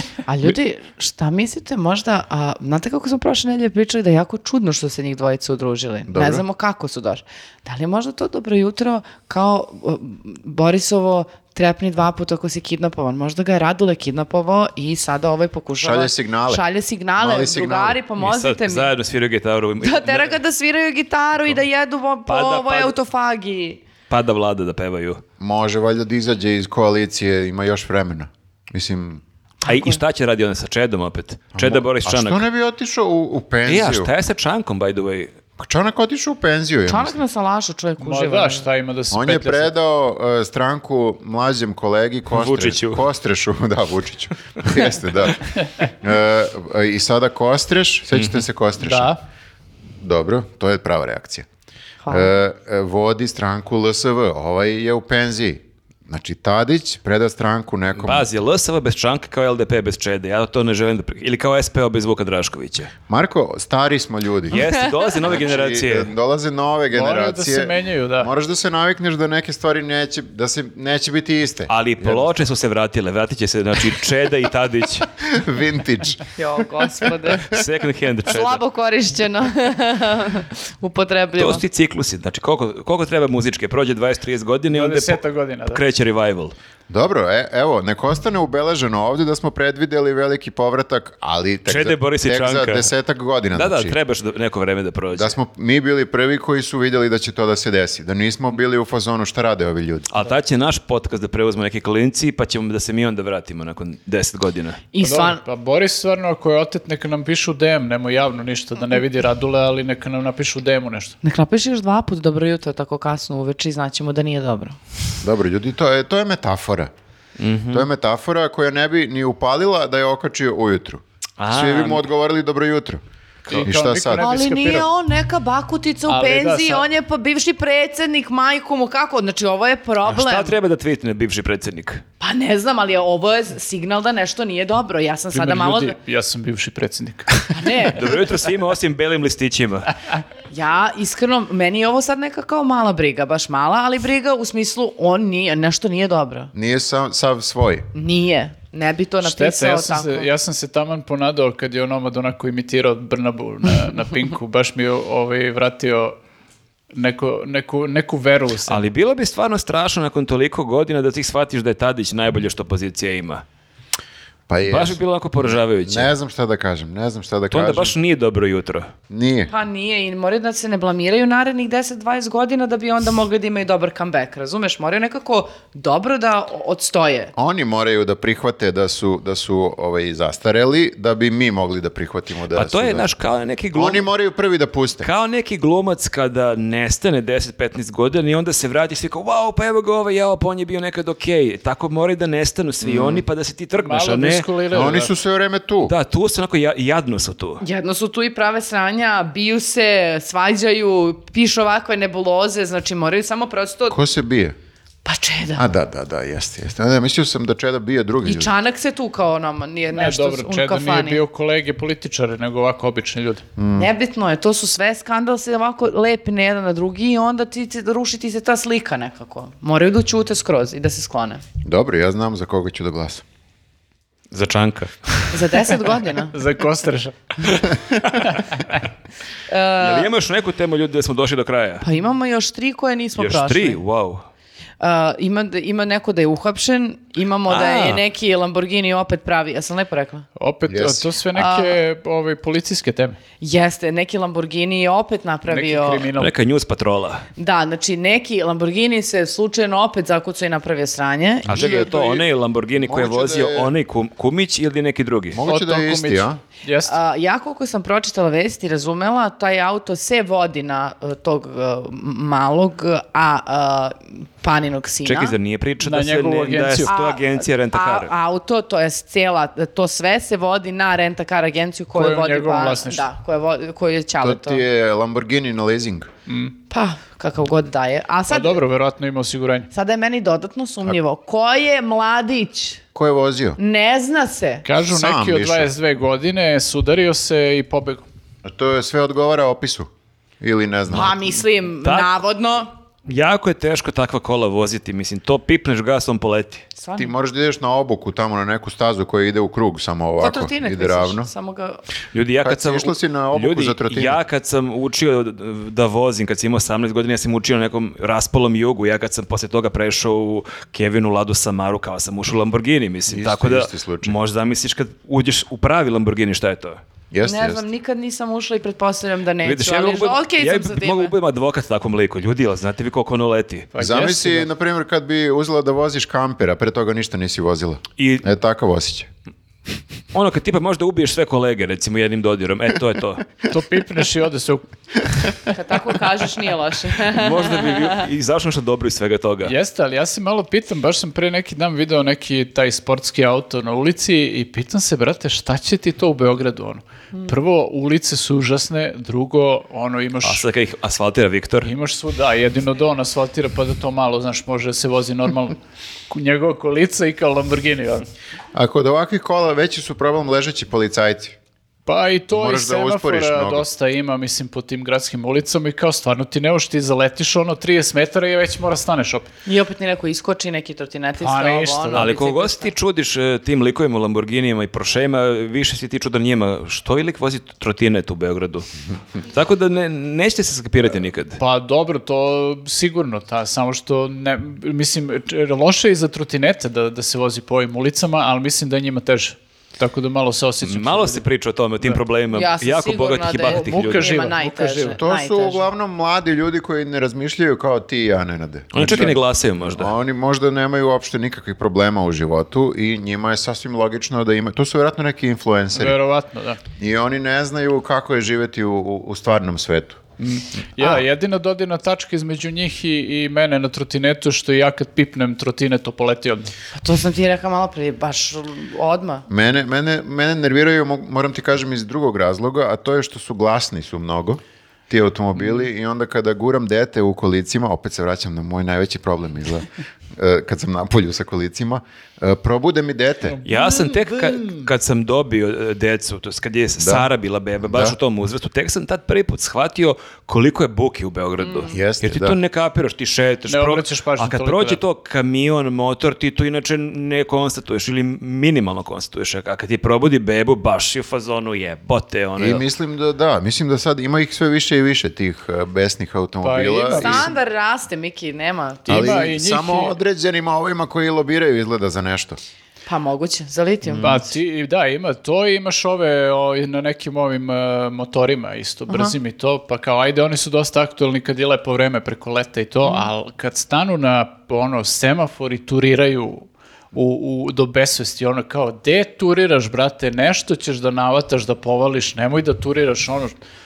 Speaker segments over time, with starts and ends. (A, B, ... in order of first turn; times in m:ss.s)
0:00.3-0:18.9 A
0:06.1-0:06.4 B
0:15.8-0:16.6 B
0:17.2-0:18.0 B
0:18.2-0:20.4 C
0:19.8-0:23.8 A
0:22.3-0:22.9 C
0:24.1-0:25.2 C
0:25.4-0:29.2 B
0:29.6-0:30.0 A
0:29.7-0:32.4 C
0:31.6-0:34.1 B
0:33.7-0:35.3 C
0:35.6-0:37.2 B
0:36.9-0:38.6 A
0:38.0-0:39.7 D
0:39.1-0:49.2 B
0:42.3-0:43.0 C
0:48.1-0:48.4 C
0:48.8-0:49.2 D
0:50.0-0:51.5 B
0:52.0-0:52.3 A
0:52.1-0:58.3 B
0:58.0-1:02.9 C
1:03.1-1:04.7 B
1:04.5-1:06.1 C
1:05.2-1:12.3 B
1:06.9-1:08.3 D
1:11.7-1:15.1 C
1:15.2-1:16.2 B
1:16.4-1:17.5 A
1:17.5-1:18.6 C
1:18.3-1:21.6 A
1:21.4-1:26.6 C
1:24.7-1:25.8 D
1:26.9-1:34.0 B
1:31.7-1:32.9 C
1:33.6-1:35.4 C
1:35.1-1:40.1 B
1:40.1-1:44.8 C
1:44.9-1:45.4 A
1:45.0-1:51.2 D
1:51.2-1:54.8 A
1:55.2-1:56.9 B
1:57.4-1:57.9 C
1:57.7-2:03.0 B
2:01.4-2:02.0 C
2:03.4-2:04.9 D
2:03.6-2:04.2 B
2:04.2-2:10.5 A
2:06.1-2:06.9 D
2:10.1-2:12.0 C
2:12.2-2:16.0 A
2:15.3-2:17.7 D
2:17.5-2:18.2 A
2:17.9-2:19.9 C
2:20.5-2:26.5 A
2:26.5-2:27.9 B
2:27.9-2:30.3 A
2:29.2-2:36.2 D
2:36.9-2:38.8 D
2:38.7-2:43.4 C
2:44.5-2:48.0 B
2:44.6-2:46.1 C
2:47.5-2:48.9 C
2:49.1-2:49.5 B
2:49.5-2:57.3 A
2:57.4-3:03.1 B
3:02.6-3:04.1 C
3:03.7-3:05.1 B
3:05.0-3:14.9 C
3:12.8-3:13.2 B
3:13.8-3:15.1 D
3:14.7-3:15.9 B
3:15.8-3:17.6 C
3:17.6-3:24.0 A
3:23.9-3:24.6 B
3:25.0-3:25.7 A
3:25.6-3:28.5 B
3:28.2-3:31.2 A
3:29.9-3:33.4 D
3:33.6-3:33.9 B
3:33.8-3:41.4 A
3:41.6-3:43.2 B
3:44.3-3:45.8 C
3:45.3-3:46.3 A
3:46.3-3:47.6 D
3:48.0-3:48.5 C
3:49.5-3:50.1 A
3:49.8-3:51.9 C
3:51.8-3:53.8 A
3:53.2-3:54.2 C
3:54.8-4:00.3 A
3:57.5-3:58.0 C
4:00.4-4:03.2 D
4:00.7-4:01.0 B
4:01.3-4:01.8 A
4:03.4-4:06.1 A
4:05.5-4:06.3 D
4:06.2-4:07.2 C
4:07.4-4:11.9 A
4:11.5-4:12.3 B
4:11.5-4:15.4 C
4:12.8-4:13.7 B
4:15.3-4:16.4 B
4:15.5-4:17.0 D
4:16.8-4:25.4 A
4:25.0-4:28.1 C
4:25.8-4:26.9 D
4:26.9-4:34.6 A
4:32.0-4:33.0 D
4:34.2-4:36.1 B
4:36.3-4:36.5 D
4:36.7-4:38.6 A
4:38.3-4:39.7 D
4:39.7-4:42.8 A
4:43.0-4:43.6 B
4:43.6-4:44.7 A
4:44.6-4:48.0 D
4:44.9-4:45.7 B
4:48.4-4:51.4 B
4:50.9-4:52.7 A
4:51.8-4:52.2 C
4:53.1-4:56.6 C
4:56.8-4:57.1 A
4:57.0-5:01.3 B
5:00.2-5:01.8 A
5:02.1-5:16.8 C
5:02.4-5:04.2 B
5:13.1-5:14.2 B
5:17.1-5:17.6 B
5:17.2-5:21.1 A
5:19.4-5:23.7 C
5:23.7-5:24.5 D
5:23.8-5:29.1 B
5:28.0-5:28.2 C
5:30.1-5:33.3 C
5:33.5-5:35.5 D
5:35.5-5:38.0 A
5:37.0-5:39.6 C
5:39.4-5:50.5 D
5:50.2-5:51.7 C
5:51.6-5:55.6 D
5:56.1-5:58.1 D
5:58.5-6:01.4 B
6:01.9-6:09.3 D
6:02.3-6:03.7 B
6:09.5-6:12.7 A
6:11.2-6:12.1 D
6:11.9-6:18.7 C
6:19.3-6:21.4 C
6:21.4-6:31.2 D
6:30.6-6:34.2 C
6:32.3-6:35.7 A
6:33.5-6:35.0 D
6:34.9-6:46.0 B
6:38.7-6:39.9 C
6:45.7-6:46.6 D
6:46.8-6:50.0 B
6:50.2-6:56.5 D
6:56.7-6:59.3 A
6:59.3-7:13.4 B
7:13.4-7:32.6 C
7:16.8-7:17.1 B
7:17.6-7:18.0 B
7:21.4-7:21.7 A
7:21.7-7:22.4 B
7:23.5-7:24.8 D
7:32.4-7:37.3 B
7:36.4-7:37.4 D
7:36.9-7:39.3 A
7:38.9-7:39.9 D
7:38.9-7:42.4 B
7:42.9-7:44.3 A
7:43.8-7:44.2 B
7:44.0-8:03.4 D
7:48.9-7:49.1 A
7:52.8-7:53.1 A